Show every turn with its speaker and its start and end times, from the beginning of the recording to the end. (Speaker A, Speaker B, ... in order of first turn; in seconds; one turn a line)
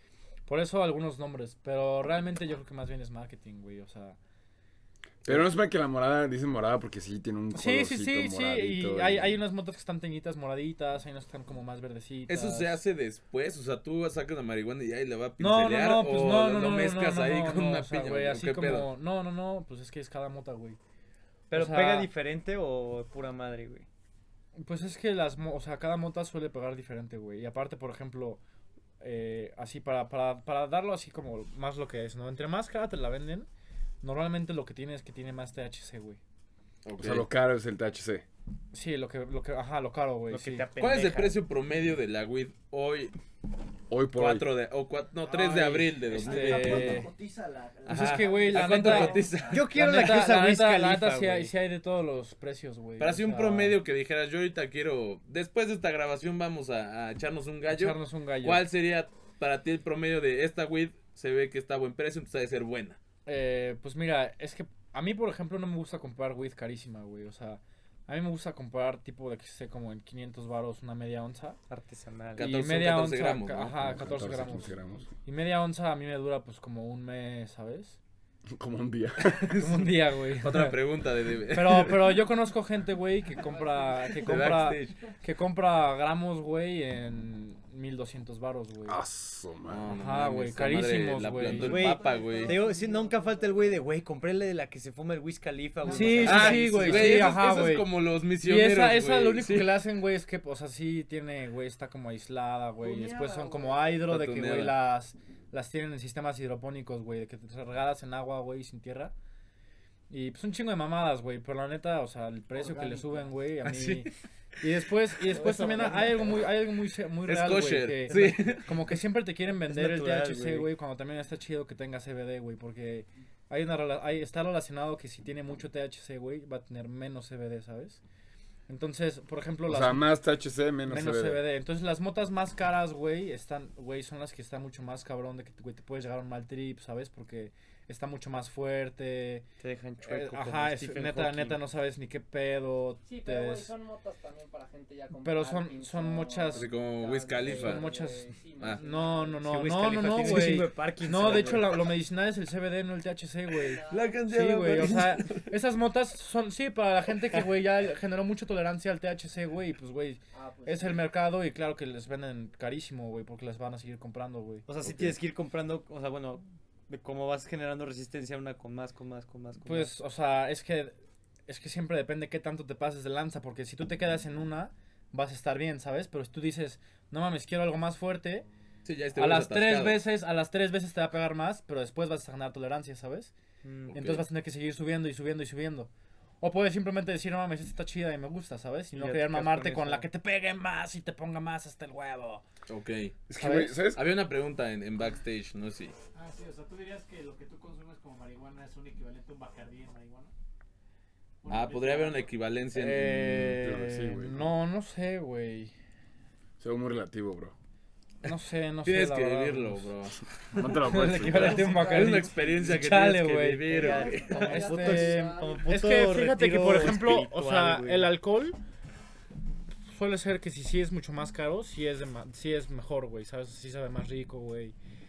Speaker A: 0.5-4.2
Speaker B: 5.2-9.4
Speaker A: 7.5-12.8
Speaker C: 12.3-18.9
Speaker A: 15.4-20.8
Speaker D: 21.5-23.9
Speaker A: 21.5-22.1
Speaker A: 24.6-28.4
Speaker A: 29.0-33.5
Speaker A: 34.0-36.2
Speaker C: 36.8-37.3
Speaker B: 37.0-38.2
Speaker A: 38.7-40.7
Speaker D: 40.3-41.4
Speaker C: 40.8-43.1
Speaker B: 43.9-44.5
Speaker C: 44.1-47.1
Speaker A: 45.3-47.1
Speaker E: 45.3-49.8
Speaker C: 47.9-49.7
Speaker A: 47.9-53.8
Speaker D: 49.5-51.5
Speaker C: 53.0-63.0
Speaker A: 57.7-58.6
Speaker A: 63.3-71.6
Speaker D: 71.7-72.5
Speaker C: 72.4-73.8
Speaker A: 72.4-78.0
Speaker B: 73.8-75.1
Speaker B: 78.5-79.6
Speaker A: 79.6-80.8
Speaker C: 80.4-82.2
Speaker A: 81.5-89.0
Speaker F: 83.4-84.4
Speaker C: 84.2-85.0
Speaker B: 88.9-89.9
Speaker C: 89.7-92.6
Speaker A: 89.9-91.9
Speaker F: 91.6-93.8
Speaker D: 91.6-97.4
Speaker A: 95.9-97.9
Speaker F: 95.9-96.4
Speaker E: 95.9-96.5
Speaker C: 96.2-99.8
Speaker A: 98.4-109.1
Speaker F: 102.8-103.9
Speaker C: 104.1-104.8
Speaker A: 110.1-128.0
Speaker E: 112.5-113.4
Speaker C: 113.6-114.1
Speaker E: 115.3-116.5
Speaker C: 117.3-118.7
Speaker D: 118.1-118.6
Speaker D: 119.6-120.7
Speaker A: 128.7-130.2
Speaker B: 129.7-131.4
Speaker A: 130.9-139.5
Speaker D: 139.6-141.6
Speaker A: 140.0-143.7
Speaker F: 143.1-149.4
Speaker A: 145.2-146.7
Speaker C: 146.5-147.9
Speaker A: 147.5-148.2
Speaker A: 148.8-164.7
Speaker D: 149.4-151.9
Speaker F: 153.6-154.2
Speaker C: 153.9-155.5
Speaker F: 160.3-161.1
Speaker D: 164.7-169.9
Speaker A: 169.6-170.9
Speaker A: 171.5-178.5
Speaker C: 178.8-180.0
Speaker A: 179.2-183.3
Speaker D: 183.6-183.9
Speaker C: 183.9-184.2
Speaker A: 183.9-185.9
Speaker A: 186.4-192.4
Speaker D: 188.9-190.1
Speaker C: 192.7-193.2
Speaker B: 193.3-194.1
Speaker A: 193.4-193.8
Speaker C: 193.9-195.9
Speaker G: 196.1-200.3
Speaker G: 201.4-202.3
Speaker C: 201.5-203.1
Speaker A: 202.7-205.7
Speaker B: 203.0-204.5
Speaker B: 206.6-207.6
Speaker A: 208.2-209.9
Speaker C: 208.9-214.4
Speaker B: 210.6-211.7
Speaker A: 210.9-218.6
Speaker F: 211.3-212.8
Speaker F: 213.7-215.6
Speaker D: 213.7-218.1
Speaker E: 214.3-215.0
Speaker A: 219.9-224.8